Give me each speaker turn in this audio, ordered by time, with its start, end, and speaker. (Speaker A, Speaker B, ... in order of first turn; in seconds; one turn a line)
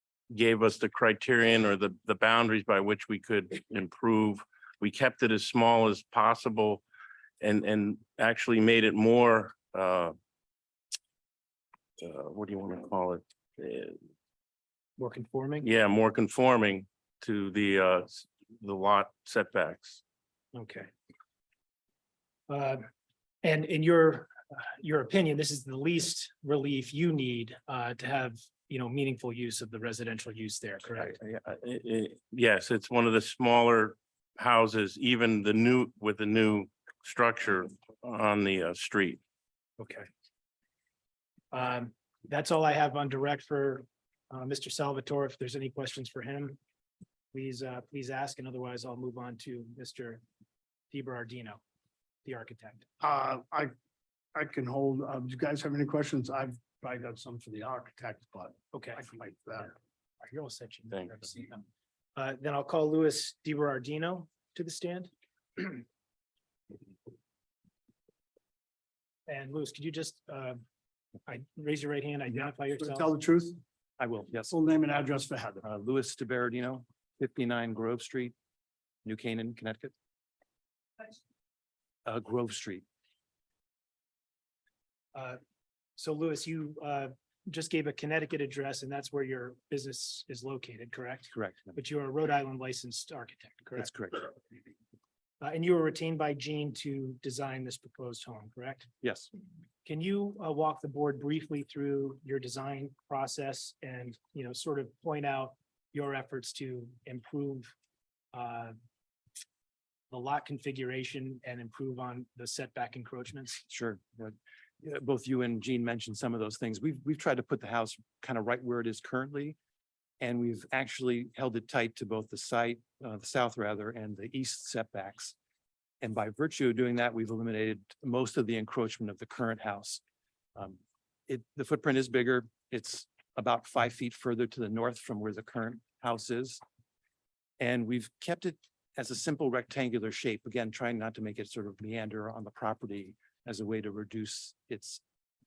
Speaker A: 0.3-6.8
Speaker A: 7.4-10.1
Speaker A: 12.0-14.0
Speaker B: 15.0-15.7
Speaker A: 15.6-20.0
Speaker B: 20.5-20.9
Speaker B: 22.5-22.9
Speaker B: 23.4-31.1
Speaker A: 31.0-39.2
Speaker B: 39.8-40.1
Speaker B: 41.5-46.6
Speaker B: 47.3-50.2
Speaker B: 50.9-51.6
Speaker B: 52.2-52.9
Speaker C: 53.0-53.7
Speaker C: 54.3-59.7
Speaker B: 58.7-59.0
Speaker B: 60.2-61.6
Speaker B: 62.1-65.8
Speaker B: 69.3-70.6
Speaker B: 71.2-73.1
Speaker C: 72.7-73.6
Speaker D: 74.0-74.5
Speaker C: 74.5-75.6
Speaker D: 75.6-78.3
Speaker D: 79.0-79.9
Speaker D: 82.0-82.8
Speaker B: 85.1-85.4
Speaker B: 86.0-93.9
Speaker D: 91.3-91.8
Speaker D: 93.8-94.2
Speaker B: 95.4-98.9
Speaker D: 99.0-99.3
Speaker B: 99.8-107.7
Speaker B: 108.3-108.7
Speaker B: 110.1-113.6
Speaker D: 113.7-119.5
Speaker D: 120.2-125.3
Speaker D: 126.0-130.0
Speaker D: 130.6-136.6
Speaker D: 137.6-145.0